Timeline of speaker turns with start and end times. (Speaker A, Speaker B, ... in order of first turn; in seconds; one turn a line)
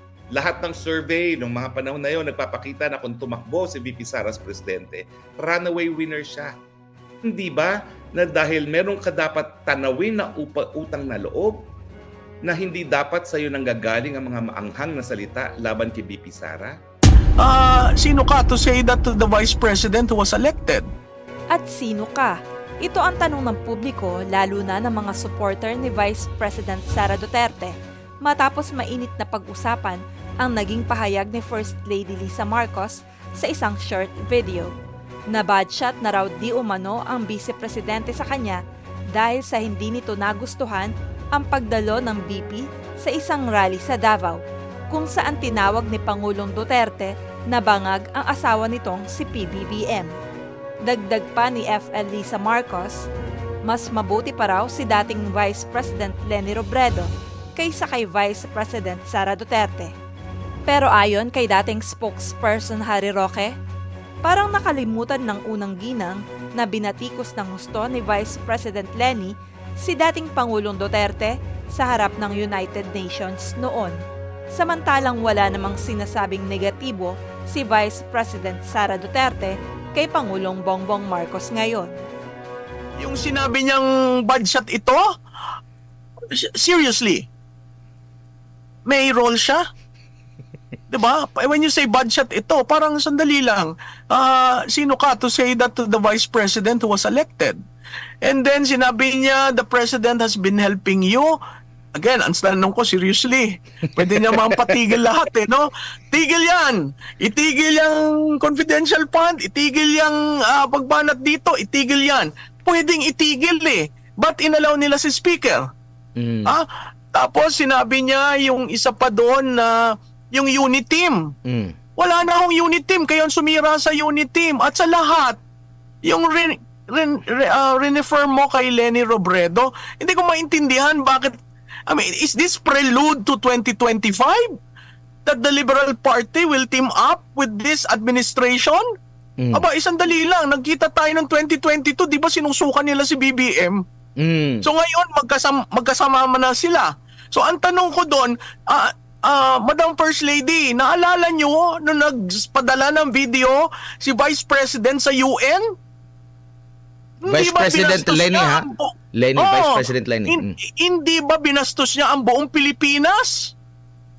Speaker A: 0.3-6.5
Speaker A: 7.2-11.7
Speaker A: 12.4-16.8
Speaker B: 17.4-20.9
Speaker C: 21.5-34.7
Speaker C: 35.3-38.6
Speaker C: 39.1-44.4
Speaker C: 44.9-50.1
Speaker C: 50.8-53.1
Speaker C: 53.6-59.9
Speaker C: 60.7-63.5
Speaker C: 64.2-74.0
Speaker C: 74.5-82.0
Speaker B: 83.0-85.1
Speaker B: 86.3-87.3
Speaker B: 88.8-89.6
Speaker B: 90.9-97.6
Speaker B: 98.2-101.4
Speaker B: 102.0-115.7
Speaker D: 104.0-104.6
Speaker D: 116.2-116.6
Speaker B: 116.5-119.8
Speaker B: 120.3-121.3
Speaker D: 121.5-121.8
Speaker B: 122.0-125.4
Speaker B: 126.0-134.6
Speaker B: 135.3-138.8
Speaker D: 139.4-139.7
Speaker B: 139.5-143.8
Speaker D: 144.2-144.7
Speaker B: 144.6-155.7
Speaker B: 157.2-163.5
Speaker D: 157.2-160.6